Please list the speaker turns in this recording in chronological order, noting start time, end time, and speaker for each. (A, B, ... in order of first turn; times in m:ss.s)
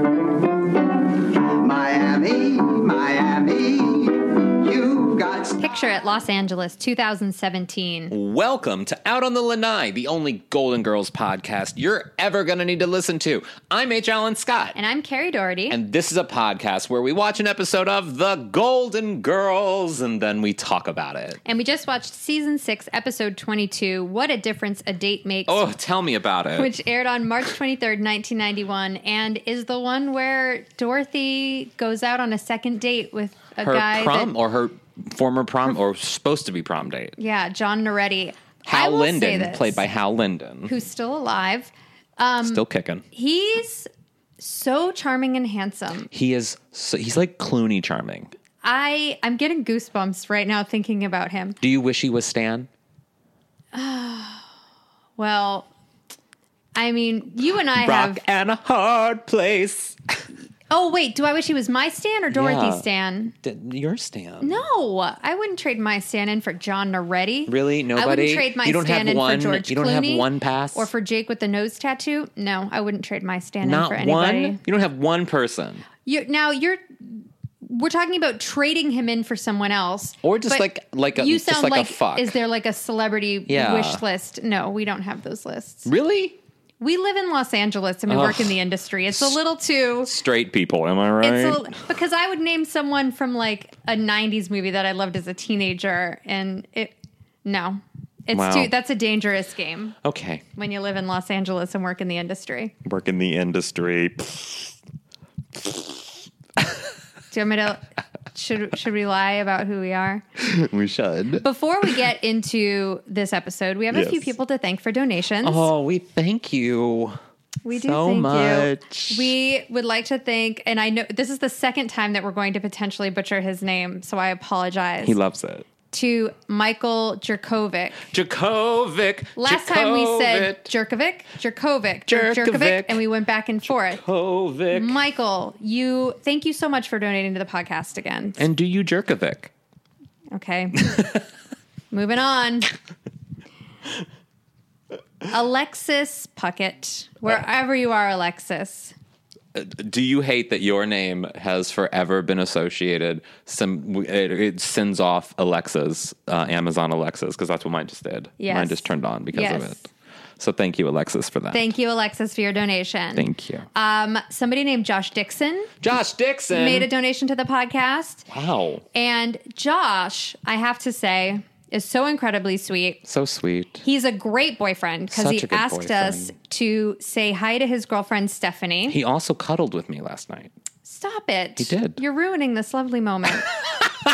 0:01.3-0:05.6 A
0:05.6-0:08.1 B
0:08.1-0:14.8 C
0:14.7-0:15.8 B
0:15.7-0:21.4 C
0:21.4-0:25.6 B
0:25.5-0:26.7 C
0:26.6-0:34.3 B
0:33.6-0:37.2 C
0:37.2-0:39.8 B
0:38.6-0:40.7 C
0:40.6-0:46.1 B
0:42.4-0:43.0 C
0:46.1-0:48.3 C
0:48.6-0:51.6 B
0:51.6-0:52.7 C
0:53.7-0:54.5 B
0:55.2-0:55.7 B
0:56.7-0:58.2 B
0:57.7-1:00.0 C
1:00.7-1:03.3 B
1:02.3-1:02.8 C
1:03.3-1:04.6 C
1:04.4-1:14.6 B
1:07.5-1:10.9 C
1:13.6-1:15.8 C
1:16.0-1:25.9 B
1:20.2-1:22.4 C
1:23.5-1:24.0 C
1:25.8-1:26.4 C
1:26.8-1:30.1 B
1:28.1-1:28.6 C
1:30.0-1:31.7 C
1:31.2-1:40.0 B
1:38.3-1:38.7 C
1:40.0-1:40.4 C
1:40.6-1:42.7 B
1:42.8-1:44.8 C
1:45.6-1:46.8 C
1:47.3-1:50.2 B
1:50.4-1:51.4 C
1:51.4-1:55.7 B
1:53.9-1:54.3 C
1:55.4-1:57.2 C
1:57.6-2:05.2 B
1:57.7-1:59.3 C
2:05.0-2:05.6 C
2:05.9-2:08.1 B
2:08.1-2:10.7 C
2:09.4-2:14.0 B
2:12.1-2:13.0 C
2:13.8-2:15.0 C
2:14.7-2:18.4 B
2:18.4-2:19.5 C
2:20.3-2:20.9 B
2:20.8-2:21.2 C
2:21.9-2:22.7 B
2:25.2-2:28.9 B
2:29.5-2:39.9 C
2:38.4-2:39.8 B
2:40.4-2:41.6 C
2:41.5-2:45.7 B
2:43.1-2:43.7 C
2:45.8-2:46.9 C
2:46.5-2:48.3 B
2:48.3-2:48.8 C
2:48.9-2:53.0 B
2:53.0-2:53.8 C
2:53.8-2:59.0 B
2:55.1-2:56.3 C
2:58.9-3:00.5 C
3:00.8-3:03.6 B
3:01.6-3:02.0 C